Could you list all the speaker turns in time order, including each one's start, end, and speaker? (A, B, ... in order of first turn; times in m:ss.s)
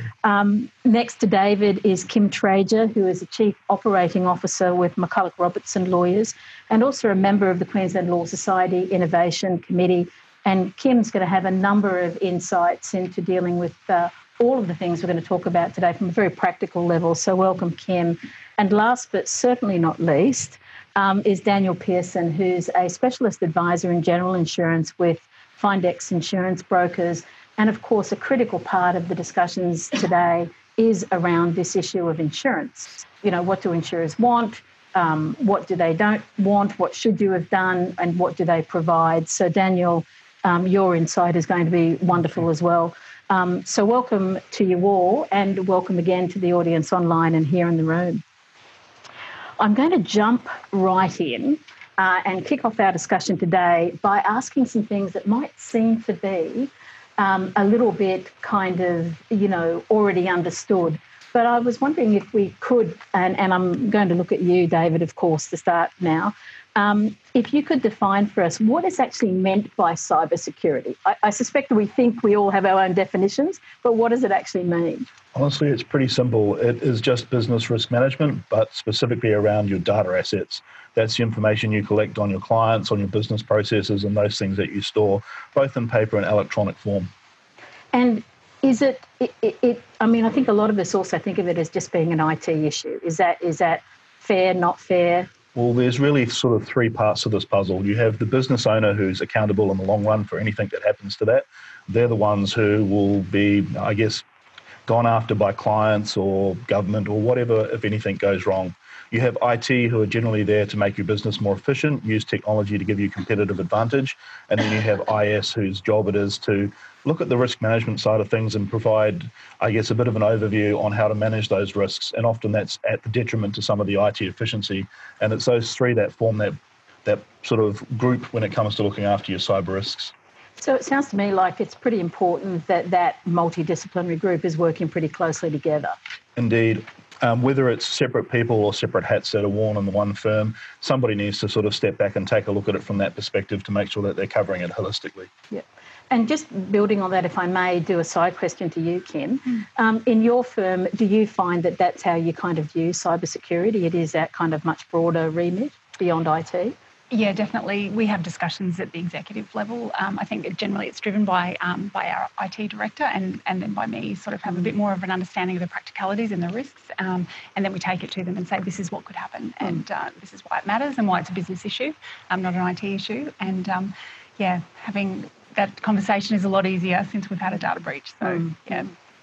0:00.2-0:48.2 A
0:49.6-1:15.1 A
1:15.3-1:27.1 B
1:27.9-1:35.3 A
1:35.5-1:44.2 B
1:44.8-2:10.1 B
2:10.6-2:16.0 A
2:16.4-2:25.3 B
2:25.5-2:36.7 A
2:37.1-2:58.9 C
2:58.2-2:58.9 A